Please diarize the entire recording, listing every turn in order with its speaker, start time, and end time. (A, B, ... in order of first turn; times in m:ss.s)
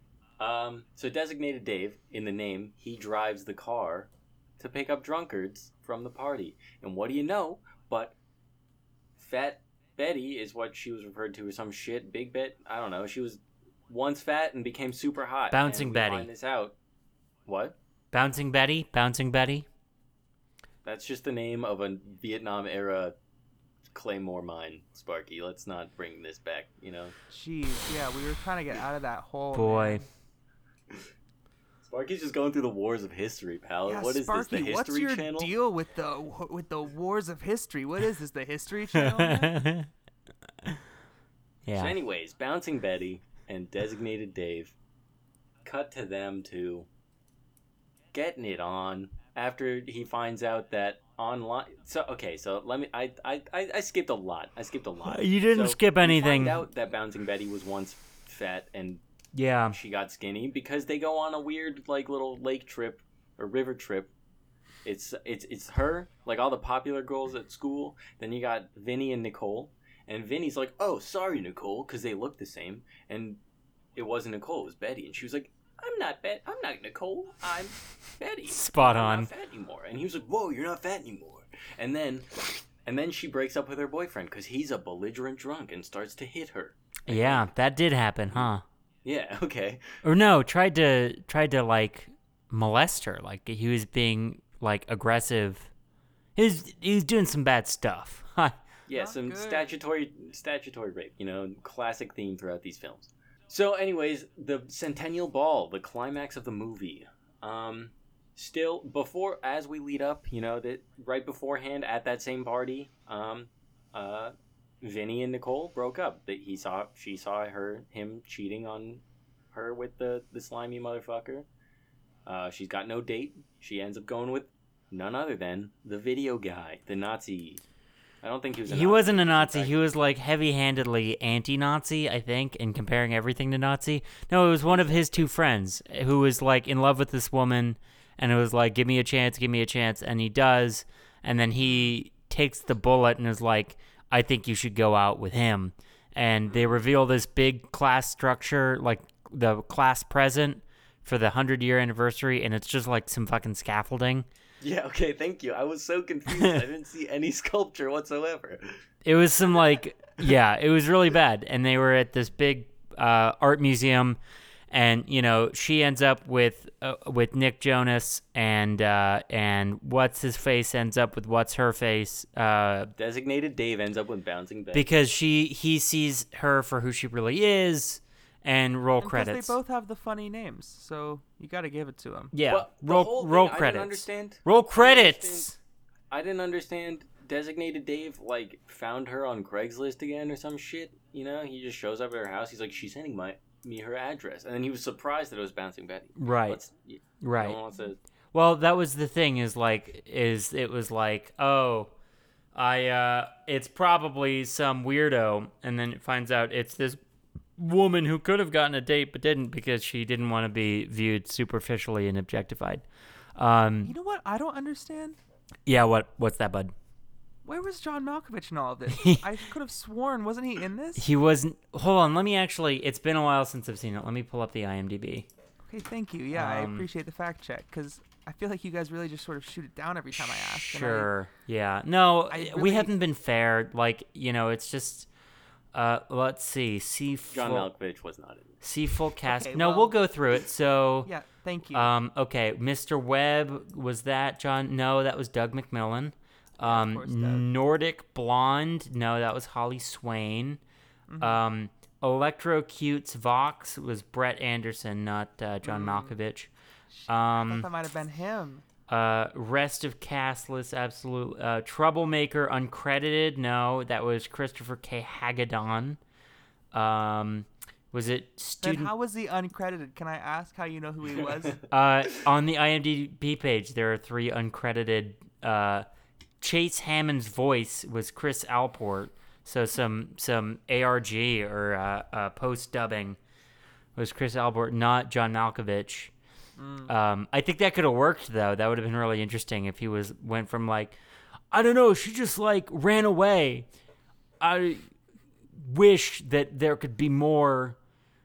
0:00.4-0:08.2 A
0:09.2-0:16.8 A
0:15.5-0:16.3 B
0:17.4-0:17.8 A
0:18.1-0:19.6 B
0:20.8-0:23.1 A
0:23.9-0:27.1 A
0:27.3-0:30.1 C
0:29.5-0:30.0 B
0:31.8-0:35.5 A
0:33.8-0:39.6 C
0:38.9-0:39.9 B
0:41.6-0:41.9 B
0:41.7-0:44.7 A
0:45.6-0:46.9 A
0:48.1-0:59.0 A
0:55.0-0:56.6 B
0:59.3-0:59.8 B
0:59.7-1:04.1 A
1:04.8-1:13.4 A
1:13.9-1:27.5 A
1:18.5-1:19.3 B
1:27.0-1:28.6 B
1:29.0-1:29.9 A
1:30.0-1:35.7 B
1:36.4-1:38.5 B
1:38.9-2:01.5 A
1:38.9-1:39.7 C
2:02.2-2:07.6 A
2:08.2-2:09.8 A
2:08.7-2:34.3 B
2:14.7-2:15.2 A
2:34.6-2:38.8 A
2:36.3-2:36.6 B
2:39.0-2:44.2 B
2:44.7-2:52.9 B
2:53.0-2:54.9 A
2:54.7-2:59.5 B
2:59.0-3:02.3 C
3:02.3-3:05.6 B
3:02.5-3:05.5 A
3:06.1-3:18.0 A
3:16.2-3:16.6 B
3:17.2-3:17.6 B
3:18.3-3:21.9 B
3:22.5-3:27.0 B
3:27.6-3:32.8 B
3:33.4-3:33.9 B
3:33.8-3:35.2 C
3:35.6-3:36.7 B
3:37.4-3:41.0 C
3:38.9-3:39.2 B
3:41.0-3:45.3 B
3:45.6-3:51.1 C
3:46.3-3:46.9 B
3:50.1-3:55.1 B
3:52.3-3:52.9 C
3:55.7-3:57.7 B
3:57.3-3:58.6 A
3:58.6-4:01.1 B
3:59.2-4:00.0 C
4:01.0-4:01.9 C
4:01.7-4:10.6 B
4:06.6-4:07.5 C
4:11.1-4:11.4 C
4:11.2-4:16.5 B
4:15.6-4:16.1 C
4:16.9-4:18.6 C
4:17.1-4:17.7 B
4:18.9-4:26.0 B
4:26.7-4:28.9 B
4:28.6-4:31.6 C
4:31.1-4:31.6 A
4:31.7-4:35.8 B
4:36.4-4:43.2 B
4:44.0-4:46.1 B
4:46.6-4:46.9 C
4:46.9-4:51.0 B
4:51.5-4:53.7 B
4:54.4-4:54.9 B
4:55.6-4:57.8 B